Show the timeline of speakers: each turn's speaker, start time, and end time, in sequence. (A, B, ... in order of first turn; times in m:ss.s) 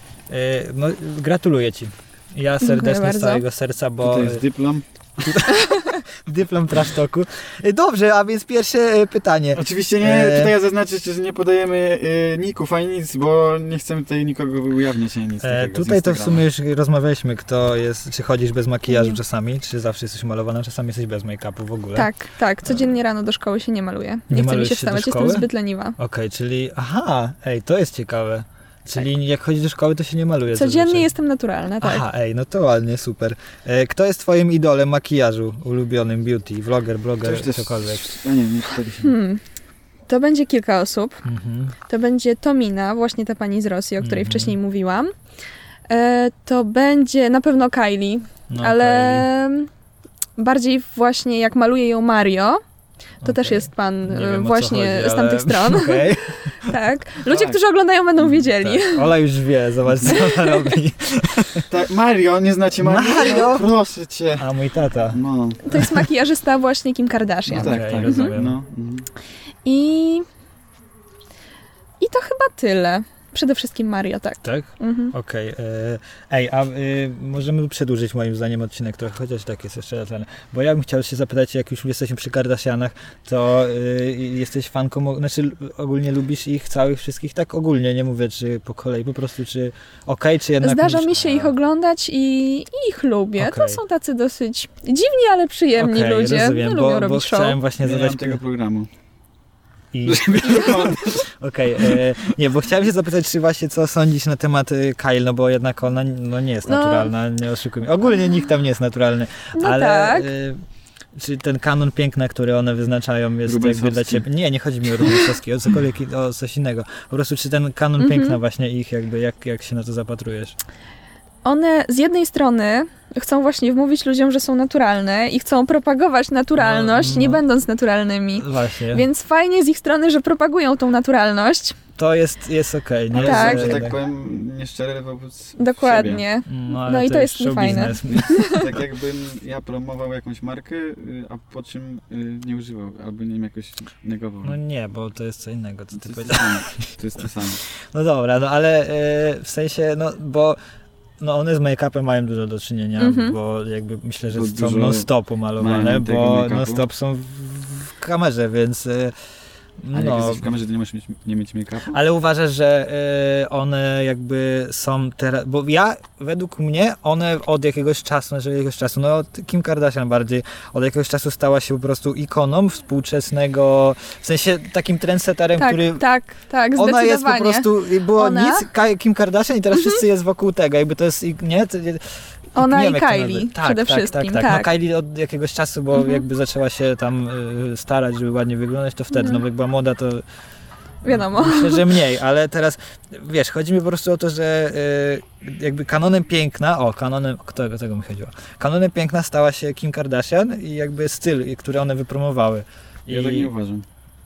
0:00.3-0:04.4 A
0:02.6-0:03.4 B
0:04.0-0:05.4 C
0:05.3-0:10.5 A
0:09.6-0:16.4 C
0:15.4-0:22.1 A
0:18.9-0:19.2 B
0:22.0-0:26.0 B
0:22.6-0:22.9 A
0:24.3-0:31.1 A
0:30.5-0:32.0 B
0:31.8-0:38.1 A
0:37.2-0:39.1 C
0:39.0-0:39.4 B
0:40.1-0:41.2 B
0:41.2-0:41.8 A
0:41.9-0:45.1 B
0:44.0-0:44.6 A
0:45.9-0:49.7 B
0:48.5-0:49.3 A
0:50.4-0:52.6 B
0:53.2-0:56.8 A
0:53.2-0:59.1 B
0:57.3-0:57.6 C
0:58.4-1:01.7 A
0:59.9-1:00.2 C
1:00.1-1:00.7 B
1:01.7-1:04.5 C
1:02.8-1:03.7 A
1:04.4-1:05.2 A
1:05.1-1:05.7 C
1:05.6-1:08.4 B
1:07.5-1:09.1 C
1:07.5-1:08.6 A
1:09.6-1:10.3 B
1:12.0-1:15.1 B
1:14.4-1:31.5 A
1:30.6-1:37.6 B
1:33.4-1:33.8 A
1:35.8-1:38.4 A
1:37.8-1:38.9 C
1:39.9-1:50.6 A
1:40.0-1:41.3 C
1:40.4-1:40.7 B
1:41.8-1:42.1 C
1:46.6-1:47.1 B
1:49.6-1:50.3 B
1:51.2-2:00.6 A
1:53.4-1:54.3 C
1:58.0-1:58.4 B
2:01.4-2:11.8 B
2:06.6-2:07.4 A
2:08.4-2:09.0 A
2:12.0-2:14.0 A
2:13.1-2:16.2 C
2:13.2-2:13.8 B
2:15.6-2:18.7 B
2:16.5-2:18.5 A
2:18.0-2:24.6 C
2:24.4-2:26.9 A
2:26.0-2:27.6 C
2:27.9-2:30.6 A
2:31.2-2:39.1 A
2:33.0-2:33.4 B
2:34.3-2:36.8 C
2:39.8-2:40.5 A
2:39.9-2:42.0 C
2:41.9-2:56.0 A
2:55.6-2:58.7 B
2:56.8-3:10.2 A
3:02.6-3:04.7 B
3:05.9-3:06.2 B
3:09.1-3:09.4 B
3:11.0-3:11.9 B
3:11.1-3:23.5 A
3:23.1-3:23.8 C